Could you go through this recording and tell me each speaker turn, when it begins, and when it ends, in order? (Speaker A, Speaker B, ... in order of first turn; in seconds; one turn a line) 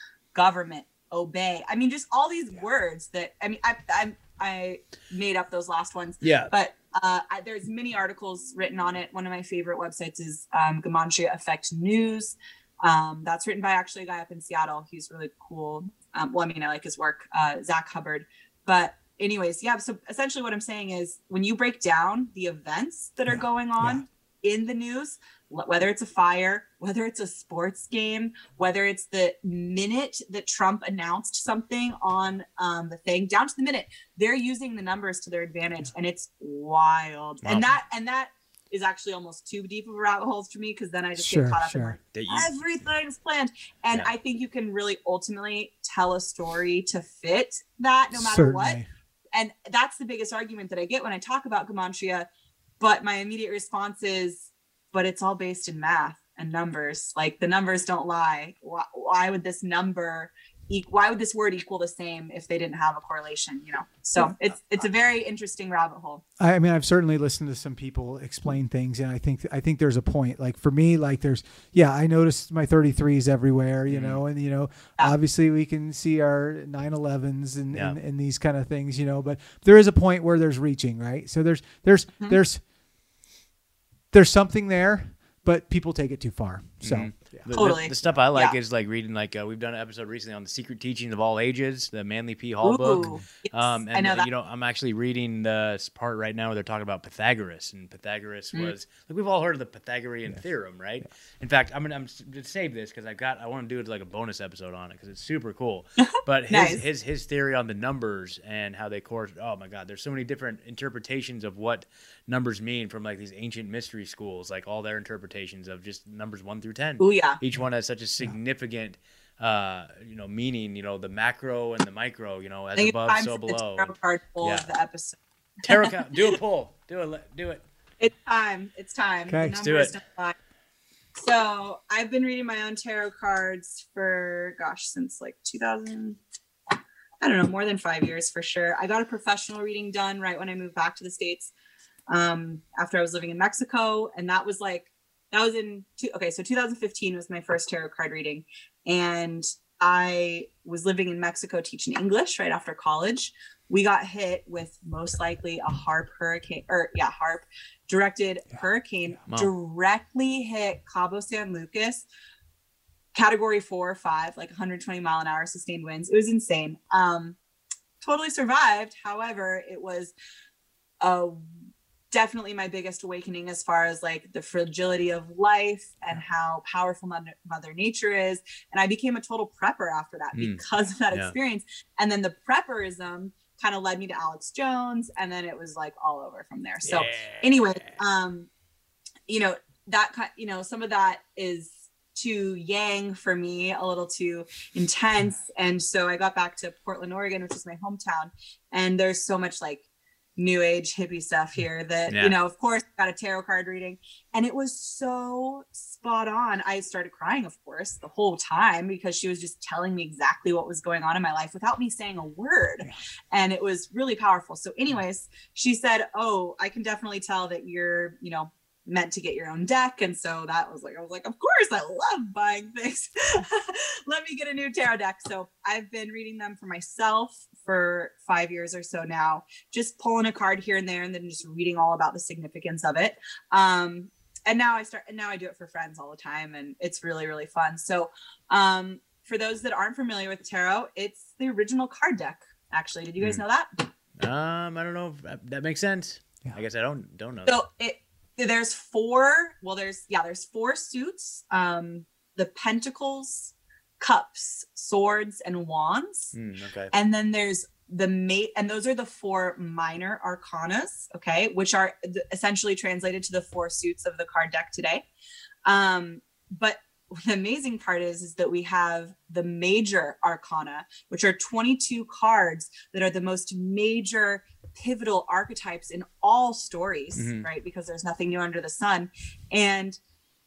Speaker A: 0.3-48.8
Speaker B: 6.2-6.5
Speaker C: 23.3-24.1
Speaker B: 37.4-37.7
Speaker C: 41.1-42.0
Speaker B: 42.1-42.5
Speaker C: 48.1-48.9
Speaker A: 49.3-52.3
Speaker A: 52.8-66.2
Speaker C: 66.4-82.6
Speaker B: 73.9-74.2
Speaker C: 84.1-87.5
Speaker B: 86.8-124.7
Speaker A: 87.5-88.5
Speaker A: 92.6-94.3
Speaker A: 106.5-106.8
Speaker A: 117.0-117.4
Speaker A: 122.8-125.2
Speaker B: 125.6-127.6
Speaker A: 128.0-130.4
Speaker C: 129.3-129.6
Speaker B: 129.6-129.9
Speaker A: 131.2-136.2
Speaker A: 137.2-141.5
Speaker A: 142.1-162.1
Speaker A: 163.1-167.4
Speaker A: 168.0-170.1
Speaker A: 171.0-171.5
Speaker A: 172.1-188.5
Speaker B: 180.3-181.3
Speaker B: 186.9-187.9
Speaker A: 189.3-199.8
Speaker A: 200.4-243.9
Speaker B: 202.1-202.4
Speaker B: 244.2-247.6
Speaker A: 247.5-256.3
Speaker B: 256.3-256.9
Speaker A: 256.9-265.1
Speaker A: 265.6-280.0
Speaker B: 277.1-277.5